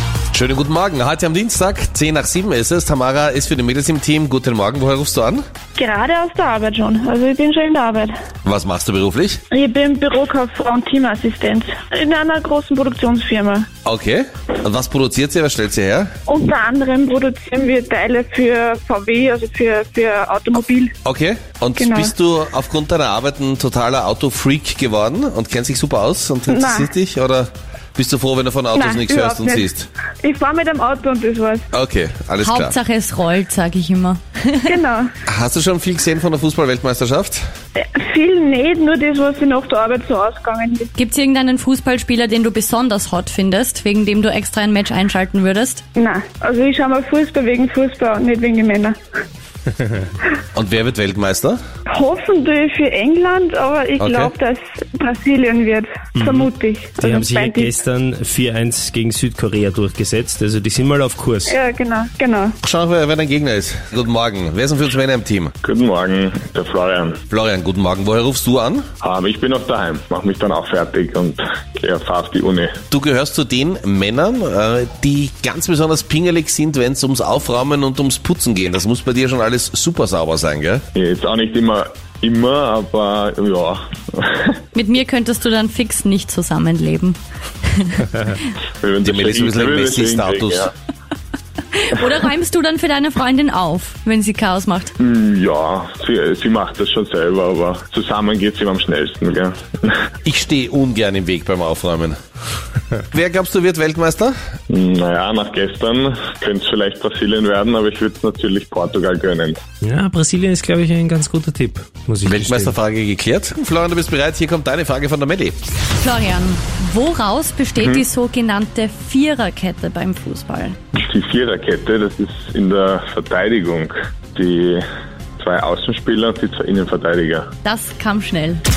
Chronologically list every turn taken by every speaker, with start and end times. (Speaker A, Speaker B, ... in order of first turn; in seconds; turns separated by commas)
Speaker A: 0.3-5.4, Speaker B: 5.7-8.1, Speaker A: 8.4-9.4, Speaker B: 9.5-13.7, Speaker A: 13.8-16.1, Speaker B: 16.3-20.9, Speaker A: 21.0-29.9, Speaker B: 21.8-22.1, Speaker B: 26.5-26.9, Speaker B: 28.7-29.7, Speaker B: 30.2-31.6, Speaker A: 31.7-32.8, Speaker C: 32.4-34.8, Speaker B: 34.6-35.1, Speaker A: 35.3-37.4, Speaker B: 37.8-40.9, Speaker C: 40.9-45.8, Speaker B: 46.0-49.0, Speaker A: 50.5-51.6, Speaker B: 51.9-57.7, Speaker A: 54.0-54.3, Speaker D: 56.1-61.5, Speaker B: 61.5-62.5, Speaker A: 62.6-65.5, Speaker E: 65.6-67.2, Speaker A: 67.3-68.8, Speaker E: 69.0-72.7, Speaker A: 72.9-80.8, Speaker E: 80.9-84.6, Speaker C: 84.7-88.3, Speaker E: 88.8-90.7, Speaker A: 89.0-90.7, Speaker C: 91.7-94.9, Speaker E: 95.0-99.9, Speaker A: 100.2-102.2, Speaker A: 103.1-104.3, Speaker E: 104.7-109.6, Speaker D: 109.8-112.7, Speaker A: 112.2-115.6, Speaker C: 116.0-120.8, Speaker E: 121.0-124.8, Speaker E: 125.4-127.5, Speaker C: 127.6-128.6